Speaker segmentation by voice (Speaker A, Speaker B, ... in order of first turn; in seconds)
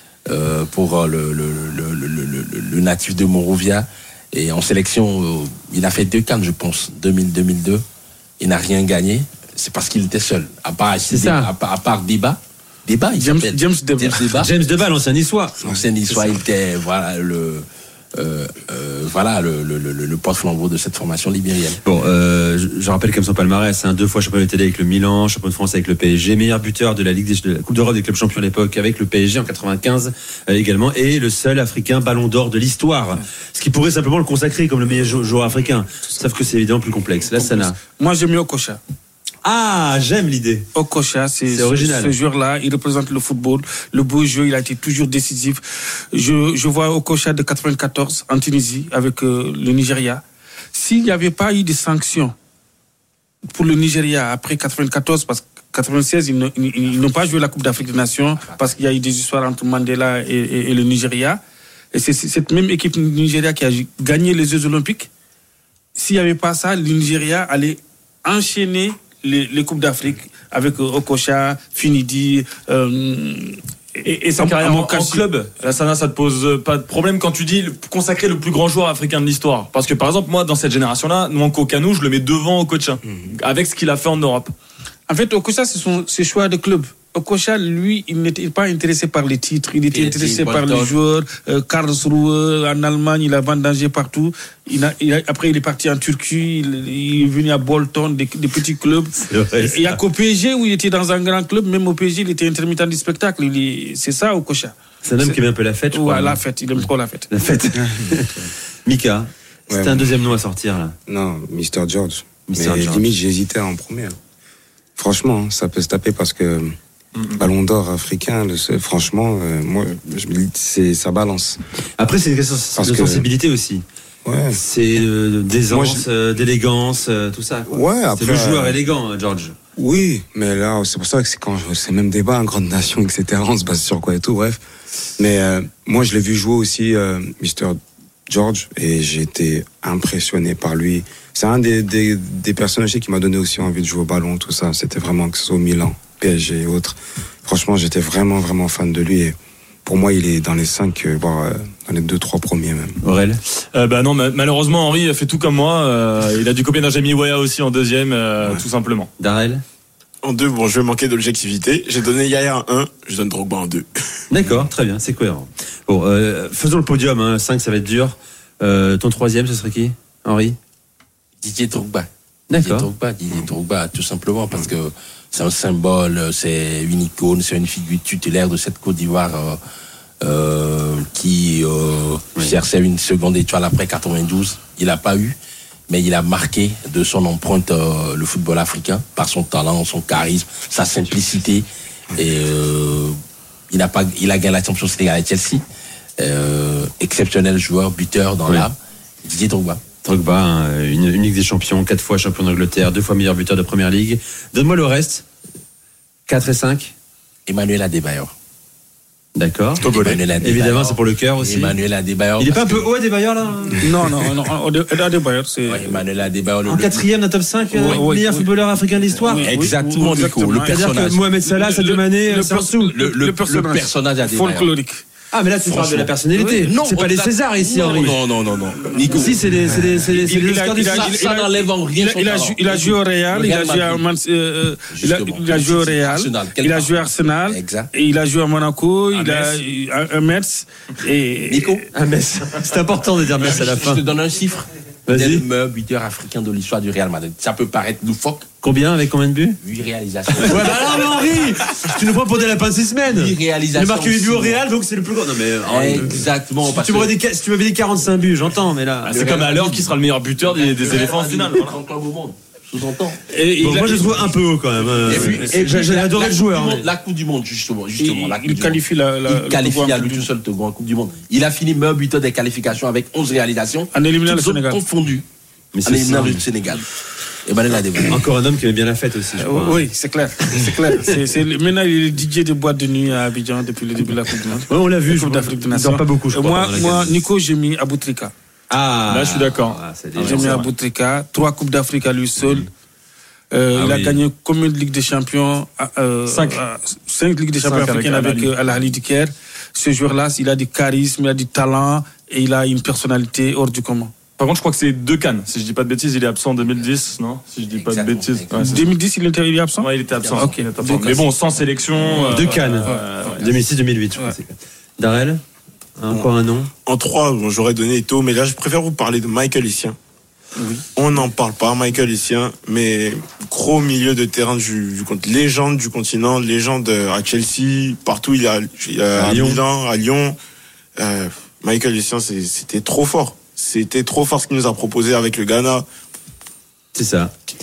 Speaker A: 0.3-7.8, 8.4-14.5, 15.6-21.8, 58.4-58.7, 89.9-90.9, 171.4-179.6, 180.2-185.4, 185.9-193.2, 193.7-195.6, 196.2-199.8, 207.5-208.3, 209.8-212.9, 215.7-217.1, 219.4-221.2, 222.9-224.7, 225.7-229.4, 230.0-234.0, 234.9-237.9, 239.2-239.5, 241.5-241.8, 243.4-248.5, 249.6-251.4, 253.1-254.6, 255.6-257.2, 259.1-263.2, 265.0-275.2, 275.8-276.9, 277.4-278.3, 307.7-308.9, 310.1-310.6, 313.2-313.5
Speaker B: 11.1-11.5, 14.3-15.6, 21.8-37.8, 39.4-40.7, 41.5-42.1, 99.3-100.0, 105.0-106.4, 107.3-111.0, 112.5-113.1, 122.0-123.8, 124.5-129.6, 153.0-153.4, 159.2-159.6, 164.3-170.6, 172.5-172.9, 200.0-205.2, 206.3-206.9, 209.4-211.8, 212.4-213.9, 216.6-219.5, 220.6-223.0, 225.3-228.2, 229.1-231.1, 241.9-244.0, 245.1-245.4, 248.6-249.6, 250.4-259.8, 263.6-266.9, 275.7-276.4, 278.1-279.8, 284.7-287.2, 288.7-290.7, 293.7-294.2, 312.3-315.4, 316.0-316.7, 329.1-329.6, 336.9-337.3
Speaker C: 13.1-14.4, 37.3-38.8, 40.7-45.6, 46.1-50.2, 50.7-52.3, 53.5-61.4, 61.9-65.1, 66.0-75.2, 85.1-105.4, 105.9-107.3, 213.8-215.9, 217.7-218.5, 219.2-225.0, 228.9-229.3, 230.1-241.9, 263.3-264.3, 265.0-265.7, 268.0-270.3, 273.9-274.8, 279.4-288.3, 290.2-292.7, 293.5-304.2, 308.5-311.3, 312.0-313.1, 320.6-320.8
Speaker D: 74.0-84.5, 153.7-159.1, 209.8-210.2, 259.1-261.8, 289.1-290.7, 296.3-296.6, 297.6-298.5, 304.4-308.9, 309.8-313.4
Speaker E: 107.7-108.2, 109.7-110.1, 111.1-114.2, 115.0-116.7, 117.3-121.6, 122.8-123.3, 124.2-124.6, 125.7-126.0, 127.7-128.8, 129.8-134.6, 135.2-153.0, 229.7-230.0
Speaker F: 160.2-163.9, 316.9-319.9, 320.9-330.4, 331.0-335.9